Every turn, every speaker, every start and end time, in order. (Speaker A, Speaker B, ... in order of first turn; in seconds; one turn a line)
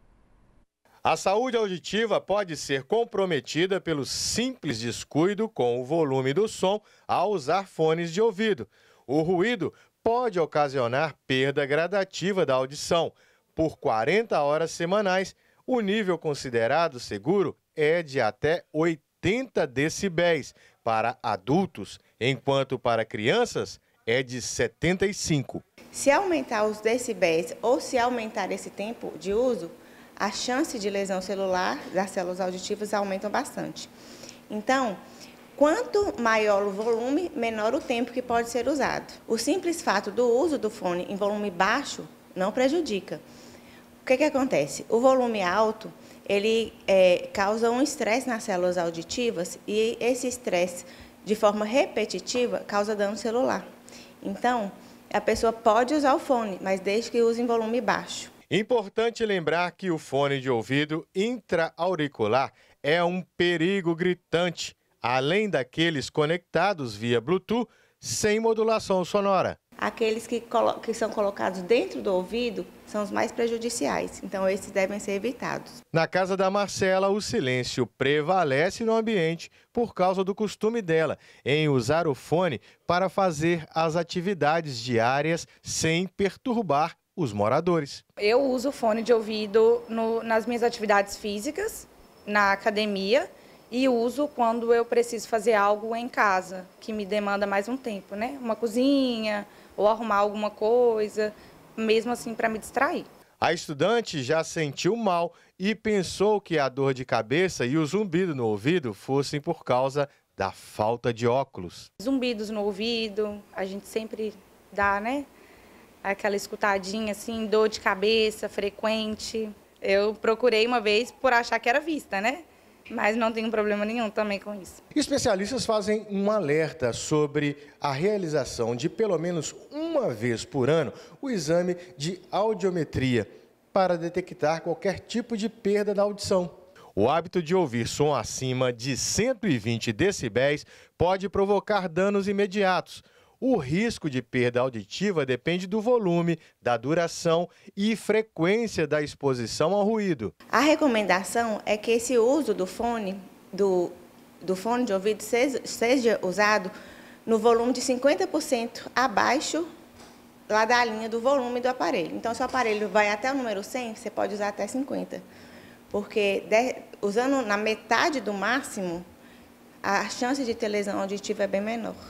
Speaker A: 1.1-25.6
Speaker B: 25.9-33.9
Speaker B: 34.5-35.0
Speaker B: 35.6-43.2
Speaker B: 44.0-53.7
Speaker B: 54.2-58.3
Speaker A: 58.5-69.6
Speaker B: 69.8-75.8
Speaker A: 75.9-88.0
Speaker C: 88.2-103.1
Speaker A: 103.4-111.9
Speaker C: 112.0-115.3
Speaker C: 116.0-124.8
Speaker A: 124.9-150.3
Speaker B: 150.5-156.7
Speaker B: 157.3-159.7
Speaker B: 160.5-165.2
Speaker B: 165.9-169.1
Speaker B: 169.8-172.0